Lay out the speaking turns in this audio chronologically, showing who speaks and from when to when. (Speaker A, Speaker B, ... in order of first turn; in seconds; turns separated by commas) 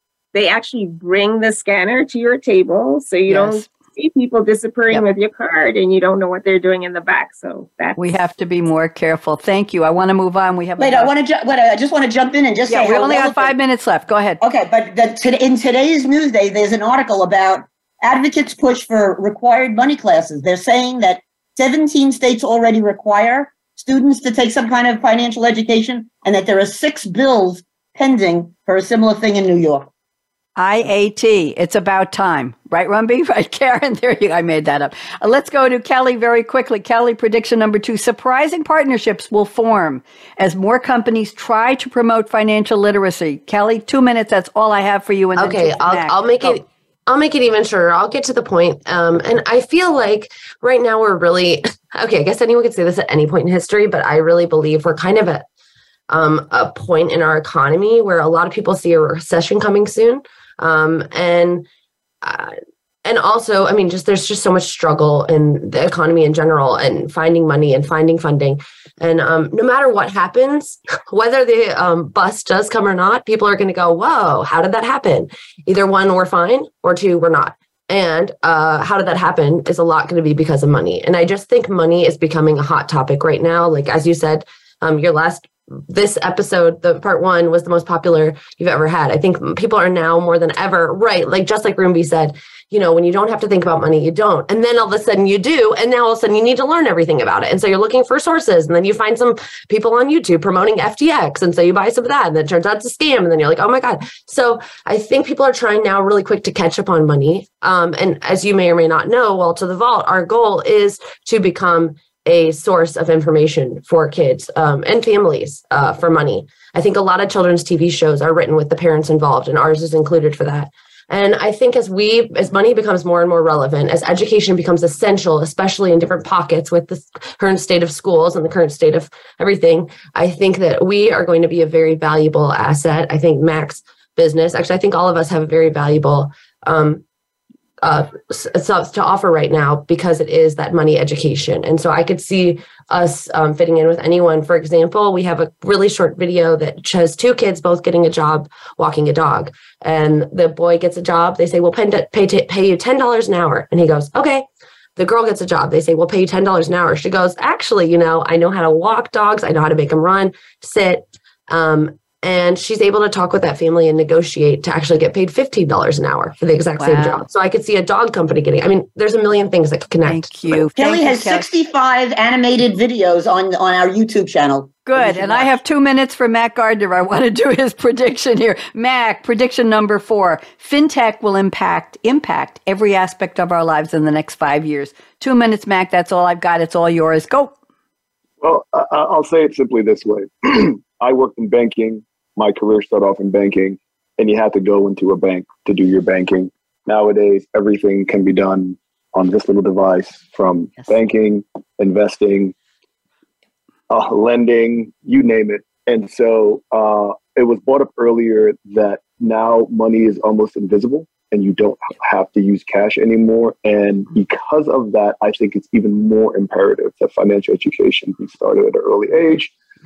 Speaker A: 0.3-8.0, Speaker B: 3.3-3.6, Speaker B: 8.0-11.1, Speaker C: 10.8-13.5, Speaker B: 12.7-14.4, Speaker C: 14.4-29.9, Speaker B: 30.6-46.6, Speaker D: 45.4-55.4, Speaker D: 56.1-61.7, Speaker D: 62.2-137.0, Speaker D: 137.8-170.7, Speaker B: 166.8-167.2, Speaker B: 170.0-171.5, Speaker C: 170.8-175.5, Speaker B: 174.9-187.5, Speaker E: 188.4-202.5, Speaker E: 203.9-219.5